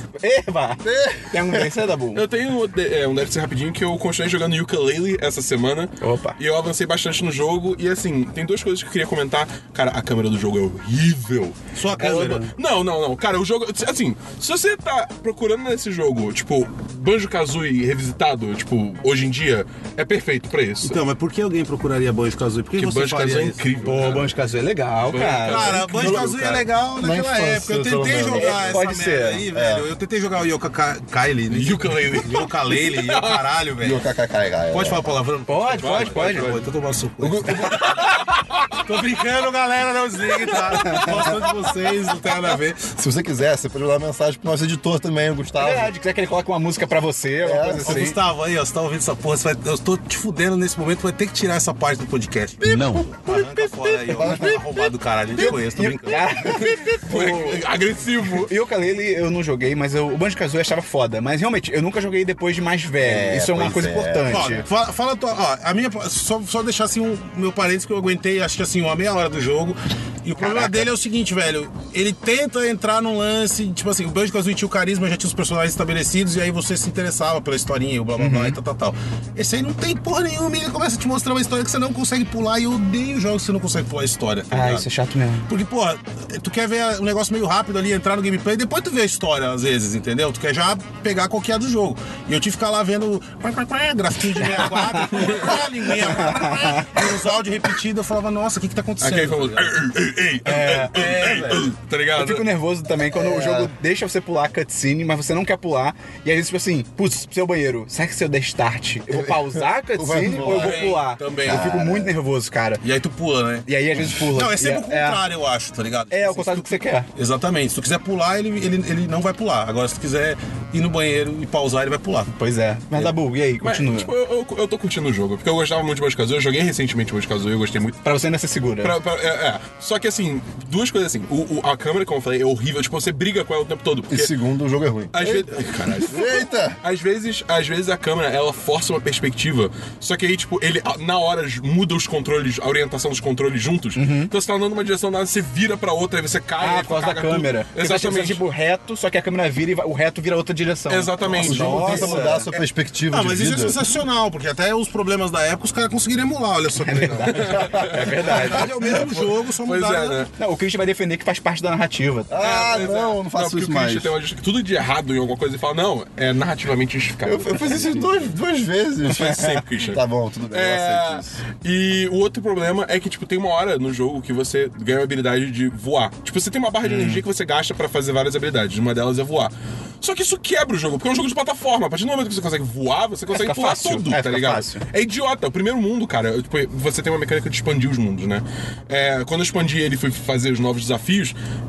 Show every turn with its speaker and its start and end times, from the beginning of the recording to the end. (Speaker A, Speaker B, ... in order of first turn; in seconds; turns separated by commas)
Speaker A: 0.2-2.2, Speaker B: 0.8-1.7, Speaker C: 2.1-11.6, Speaker A: 6.0-6.4, Speaker D: 11.7-12.5, Speaker A: 12.0-12.5, Speaker C: 12.5-21.0, Speaker D: 20.8-24.2, Speaker C: 22.7-24.3, Speaker A: 23.8-26.3, Speaker C: 25.0-26.1, Speaker D: 25.4-34.0, Speaker B: 25.9-28.9, Speaker A: 28.3-29.4, Speaker B: 29.5-29.9, Speaker C: 31.5-33.5, Speaker B: 33.8-35.0, Speaker D: 34.7-38.1, Speaker A: 35.5-36.5, Speaker C: 35.8-36.6, Speaker B: 37.2-37.9, Speaker C: 37.7-38.7, Speaker D: 38.8-42.9, Speaker A: 40.5-41.4, Speaker B: 43.0-45.9, Speaker A: 45.6-48.2, Speaker B: 47.4-48.1, Speaker D: 47.8-56.3, Speaker B: 52.6-53.2, Speaker A: 53.3-54.6, Speaker B: 54.1-54.6, Speaker A: 55.3-57.6, Speaker C: 56.4-58.5, Speaker A: 58.3-64.6, Speaker B: 63.0-64.6, Speaker D: 64.3-84.9, Speaker A: 70.4-70.8, Speaker A: 78.2-78.6, Speaker A: 84.5-85.5, Speaker D: 85.5-99.8, Speaker A: 94.5-95.3, Speaker C: 95.1-95.6, Speaker A: 96.0-96.9, Speaker C: 99.0-102.4, Speaker A: 100.4-100.9, Speaker D: 100.8-101.7, Speaker A: 102.2-112.8, Speaker B: 103.1-103.7, Speaker B: 109.1-112.1, Speaker C: 110.4-111.3, Speaker D: 110.6-111.7, Speaker D: 112.8-122.3, Speaker A: 113.7-115.2, Speaker A: 116.1-117.1, Speaker A: 122.3-124.1, Speaker C: 122.9-128.0, Speaker A: 128.0-128.9, Speaker C: 128.8-134.3, Speaker B: 134.1-136.8, Speaker C: 135.1-148.4, Speaker A: 143.9-144.3, Speaker A: 146.6-152.5, Speaker C: 150.9-152.2, Speaker B: 151.3-153.8, Speaker D: 151.9-160.2, Speaker A: 156.8-158.9, Speaker C: 156.9-160.3, Speaker A: 160.3-162.4, Speaker B: 162.3-164.1, Speaker C: 162.4-168.2, Speaker B: 167.2-171.4, Speaker C: 169.1-191.3, Speaker A: 176.8-177.2, Speaker A: 183.3-184.8